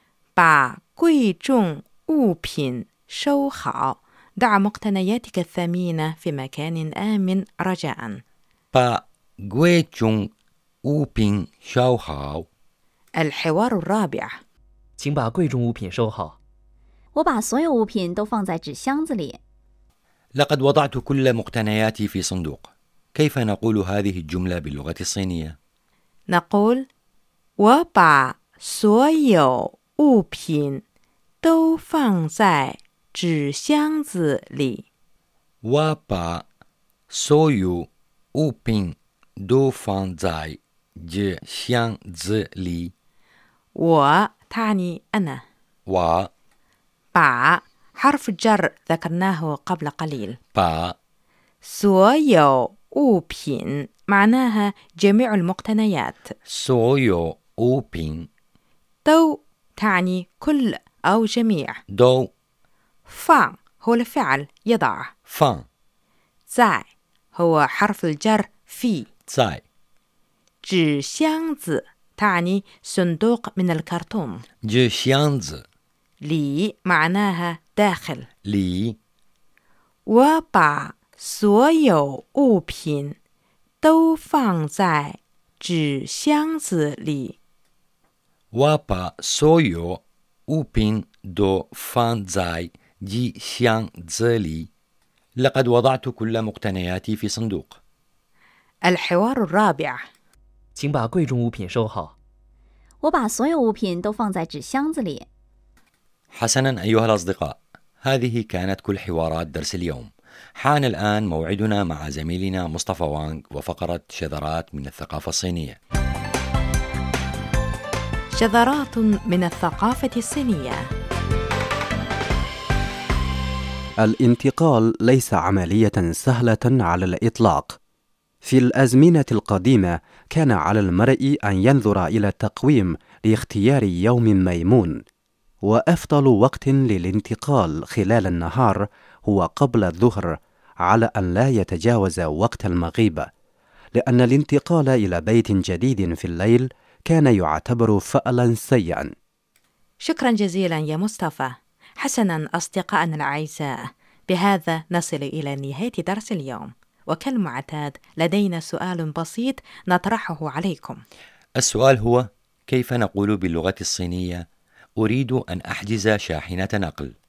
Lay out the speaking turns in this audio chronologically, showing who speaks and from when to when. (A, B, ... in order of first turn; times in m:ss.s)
0:00.4-0:08.2 A
0:08.7-0:10.3 B
0:10.8-0:12.5 B
0:13.2-0:14.4 A
0:15.0-0:16.4 C
0:17.1-0:19.4 D
0:20.4-0:25.6 B
0:26.3-0:26.9 A
0:27.6-0:30.8 A
0:31.4-0:34.8 A
0:35.6-0:36.4 B
0:37.1-0:42.9 B
0:43.8-0:45.4 A
0:45.9-0:46.3 B
0:47.2-0:50.4 A
0:50.6-0:51.0 B
0:51.6-0:56.3 A
0:56.5-0:58.3 B
0:59.0-1:01.8 A
1:01.9-1:02.3 B
1:03.1-1:05.1 A
1:05.3-1:05.6 B
1:06.5-1:09.1 A
1:09.3-1:09.6 B
1:10.7-1:14.4 A
1:14.6-1:15.6 B
1:16.2-1:18.3 A
1:18.5-1:19.0 B
1:20.1-1:23.2 A
1:23.8-1:27.4 A
1:28.5-1:34.7 B
1:35.4-1:37.8 B
1:38.8-1:40.0 A
1:40.8-1:42.1 C
1:43.0-1:45.3 D
1:46.3-1:55.8 B
1:58.4-2:00.9 A
2:04.0-2:07.8 E
2:08.4-2:15.0 E
2:15.6-2:23.3 E
2:23.9-2:29.1 E
2:30.0-2:41.0 A
2:41.6-2:44.4 B
2:45.0-2:47.1 B